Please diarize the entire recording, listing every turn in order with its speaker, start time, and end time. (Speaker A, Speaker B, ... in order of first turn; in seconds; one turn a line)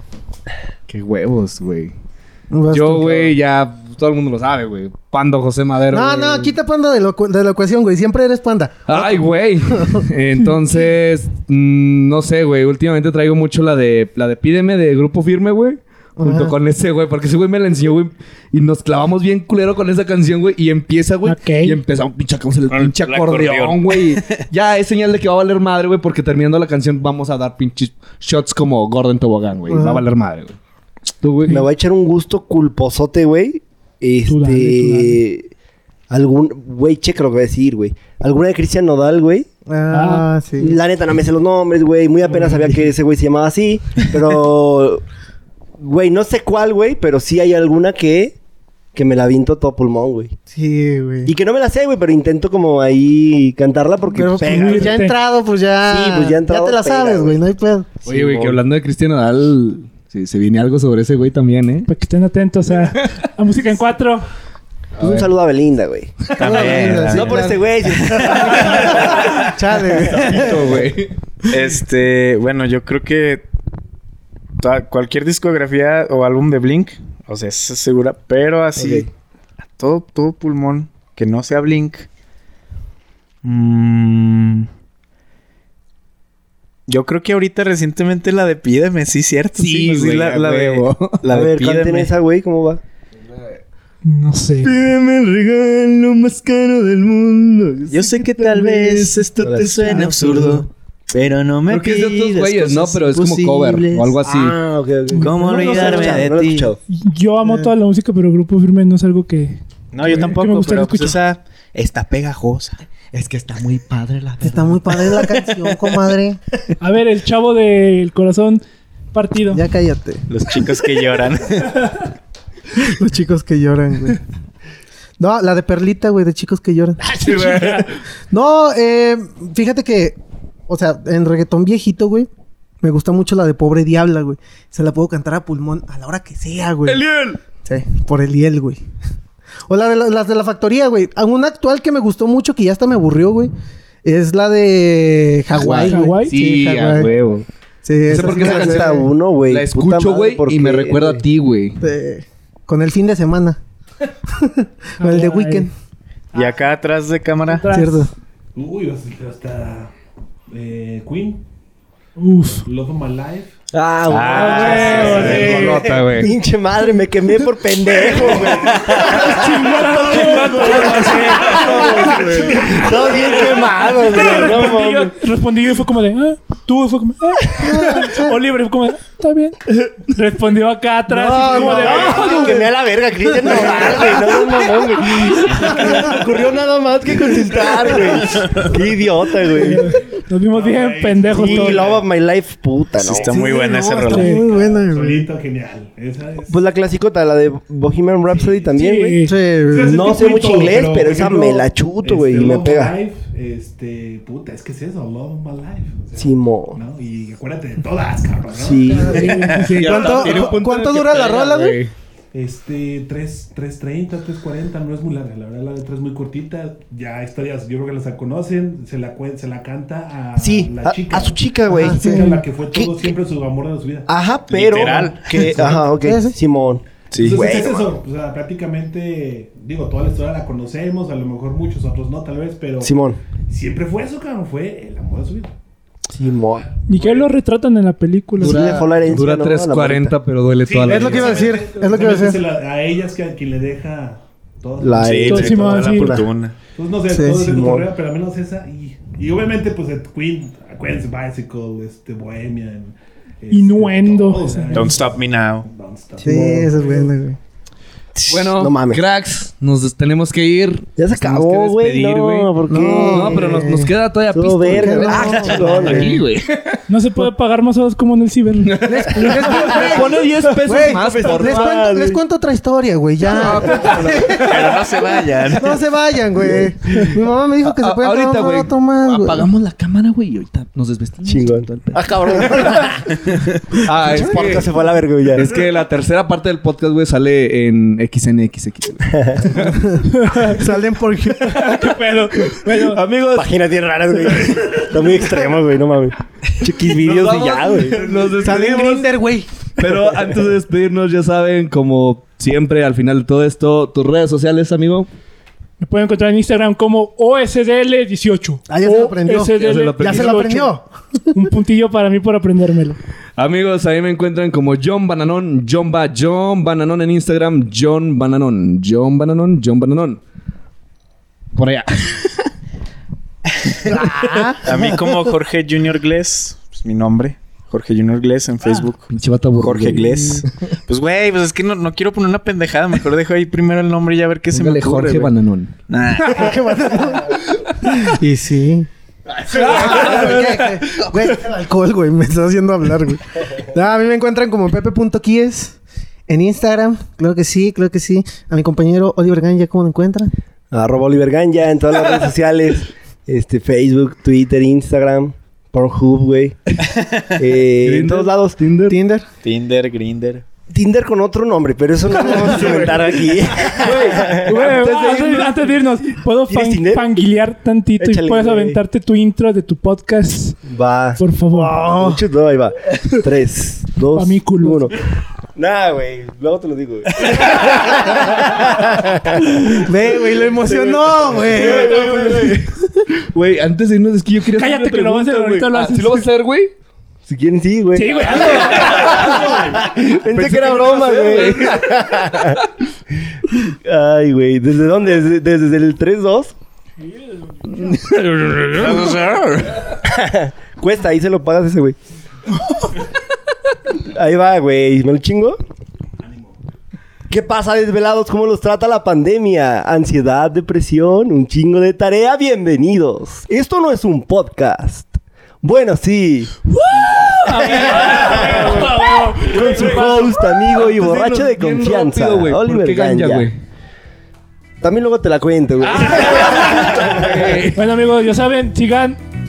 Speaker A: 0.9-1.9
Speaker B: 2.5-3.4
Speaker A: 2.7-6.5
Speaker B: 5.9-10.1
Speaker A: 8.9-30.6
Speaker B: 16.2-16.5
Speaker C: 21.2-21.8
Speaker D: 22.7-24.4
Speaker B: 29.7-30.0
Speaker A: 31.2-31.6
Speaker E: 31.5-35.5
Speaker C: 34.2-35.2
Speaker E: 36.1-39.5
Speaker B: 39.6-40.8
Speaker C: 39.9-40.3
Speaker E: 40.6-45.0
Speaker E: 45.8-48.4
Speaker E: 48.9-50.4
Speaker B: 50.5-51.3
Speaker E: 51.2-55.0
Speaker B: 54.1-58.4
Speaker C: 54.4-55.1
Speaker E: 55.9-57.4
Speaker A: 58.0-61.9
Speaker E: 58.1-58.5
Speaker C: 61.9-64.2
Speaker A: 62.8-63.1
Speaker A: 65.0-65.3
Speaker E: 65.0-69.3
Speaker D: 66.4-67.5
Speaker B: 66.4-70.7
Speaker A: 69.9-71.5
Speaker D: 71.5-73.4
Speaker D: 74.6-79.1
Speaker E: 78.8-79.1
Speaker D: 79.8-82.1
Speaker D: 83.4-84.7
Speaker D: 86.9-92.1
Speaker A: 89.5-91.2
Speaker E: 91.2-92.8
Speaker A: 93.2-93.6
Speaker C: 94.0-94.7
Speaker A: 94.6-100.7
Speaker D: 97.9-104.1
Speaker E: 99.4-100.3
Speaker A: 101.7-104.6
Speaker E: 104.2-106.8
Speaker D: 105.2-106.7
Speaker B: 105.4-105.9
Speaker C: 106.9-111.2
Speaker B: 107.4-107.7
Speaker D: 109.9-112.8
Speaker A: 113.1-115.6
Speaker B: 114.4-116.4
Speaker C: 116.8-119.6
Speaker B: 119.5-120.2
Speaker D: 120.3-121.8
Speaker B: 122.7-124.2
Speaker B: 125.2-127.0
Speaker A: 127.1-127.9
Speaker C: 127.2-127.8
Speaker B: 128.3-132.3
Speaker B: 132.8-137.0
Speaker A: 136.8-137.4
Speaker B: 137.6-138.8
Speaker B: 139.7-143.5
Speaker B: 144.0-147.1
Speaker A: 145.5-147.4
Speaker C: 145.9-146.3
Speaker B: 147.8-149.1
Speaker A: 148.1-151.8
Speaker E: 148.1-151.2
Speaker B: 151.8-153.6
Speaker B: 154.3-155.7
Speaker C: 155.0-155.7
Speaker C: 156.3-156.6
Speaker D: 156.3-157.7
Speaker C: 157.5-158.1
Speaker B: 157.7-158.1
Speaker F: 158.5-159.9
Speaker F: 160.5-161.4
Speaker C: 162.2-162.7
Speaker F: 162.7-163.5
Speaker E: 163.7-175.1
Speaker D: 164.1-165.6
Speaker C: 164.3-165.9
Speaker F: 165.0-165.4
Speaker A: 165.1-166.3
Speaker F: 168.0-169.1
Speaker C: 169.0-172.3
Speaker A: 170.2-172.8
Speaker F: 171.6-173.6
Speaker C: 173.8-182.7
Speaker B: 177.5-178.4
Speaker B: 181.1-182.6
Speaker E: 181.4-189.9
Speaker B: 183.4-184.4
Speaker C: 183.6-184.1
Speaker D: 188.3-188.7
Speaker C: 189.6-191.9
Speaker F: 190.5-192.1
Speaker E: 191.3-193.4
Speaker D: 193.0-194.4
Speaker B: 193.2-195.3
Speaker C: 194.1-194.4
Speaker F: 194.3-196.6
Speaker E: 196.5-199.2
Speaker F: 198.3-198.7
Speaker C: 198.7-199.3
Speaker B: 199.2-200.1
Speaker F: 199.7-209.5
Speaker E: 199.7-202.9
Speaker E: 206.2-206.8
Speaker E: 208.5-209.5
Speaker C: 208.9-210.3
Speaker B: 209.1-211.8
Speaker A: 209.7-211.9
Speaker F: 212.3-224.1
Speaker E: 220.4-223.1
Speaker B: 221.7-222.4
Speaker E: 224.1-227.9
Speaker D: 224.5-225.5
Speaker B: 225.8-226.3
Speaker D: 227.1-227.6
Speaker F: 227.2-232.9
Speaker E: 232.8-233.2
Speaker F: 233.5-235.5
Speaker E: 236.1-236.7
Speaker C: 236.9-238.7
Speaker F: 236.9-237.3
Speaker E: 238.4-240.2
Speaker B: 238.4-238.9
Speaker A: 238.6-241.6
Speaker F: 240.6-246.0
Speaker B: 240.8-242.4
Speaker E: 244.8-246.3
Speaker D: 245.0-246.6
Speaker C: 245.3-246.1
Speaker F: 246.7-257.1
Speaker B: 247.1-247.6
Speaker E: 247.4-247.9
Speaker C: 253.5-254.9
Speaker D: 254.7-255.7
Speaker B: 256.2-257.4
Speaker E: 256.2-256.6
Speaker E: 258.1-259.0
Speaker A: 258.3-266.8
Speaker E: 261.0-263.5
Speaker B: 262.7-263.9
Speaker E: 264.3-266.2
Speaker B: 264.7-266.2
Speaker C: 266.9-270.0
Speaker A: 268.6-271.9
Speaker B: 268.8-274.8
Speaker E: 270.8-272.2
Speaker A: 273.2-274.8
Speaker D: 274.4-275.8
Speaker B: 275.6-279.5
Speaker A: 276.6-282.9
Speaker E: 281.2-283.1
Speaker A: 283.8-284.7
Speaker E: 283.8-285.4
Speaker A: 285.3-289.9
Speaker E: 289.1-289.4
Speaker B: 289.6-291.7
Speaker C: 290.1-290.6
Speaker C: 291.5-293.0
Speaker A: 292.4-293.5
Speaker E: 293.3-298.2
Speaker A: 296.7-299.1
Speaker B: 298.3-299.6
Speaker A: 299.8-305.1
Speaker C: 305.8-310.7
Speaker B: 308.7-310.9
Speaker A: 309.5-310.7
Speaker C: 311.3-313.0
Speaker A: 313.4-320.2
Speaker A: 321.5-322.5
Speaker B: 323.9-325.0
Speaker A: 323.9-324.5
Speaker D: 324.6-335.3
Speaker A: 329.1-330.6
Speaker A: 334.5-335.7
Speaker D: 335.9-336.7
Speaker B: 336.2-338.9
Speaker A: 339.3-341.3
Speaker B: 339.5-350.3
Speaker E: 350.7-356.6
Speaker E: 357.4-358.6
Speaker A: 357.8-359.0
Speaker B: 358.9-359.2
Speaker D: 359.4-360.4
Speaker E: 360.7-364.6
Speaker A: 362.2-366.1
Speaker C: 364.4-370.6
Speaker E: 366.5-367.2
Speaker E: 368.0-368.8
Speaker E: 370.6-375.0
Speaker C: 371.2-371.8
Speaker B: 371.6-372.2
Speaker C: 374.1-374.9
Speaker E: 375.6-379.8
Speaker B: 379.6-382.6
Speaker E: 380.6-382.6
Speaker A: 381.4-386.7
Speaker C: 384.6-386.3
Speaker E: 387.2-392.6
Speaker C: 387.9-389.4
Speaker A: 389.0-392.5
Speaker E: 393.6-396.5
Speaker C: 397.0-398.1
Speaker A: 398.0-398.6
Speaker D: 398.1-399.8
Speaker E: 400.0-402.0
Speaker E: 404.0-405.6
Speaker F: 406.2-406.6
Speaker E: 407.3-416.6
Speaker A: 416.8-423.6
Speaker C: 417.4-420.2
Speaker E: 417.6-423.5
Speaker E: 424.8-427.6
Speaker A: 425.9-427.8
Speaker C: 427.7-429.2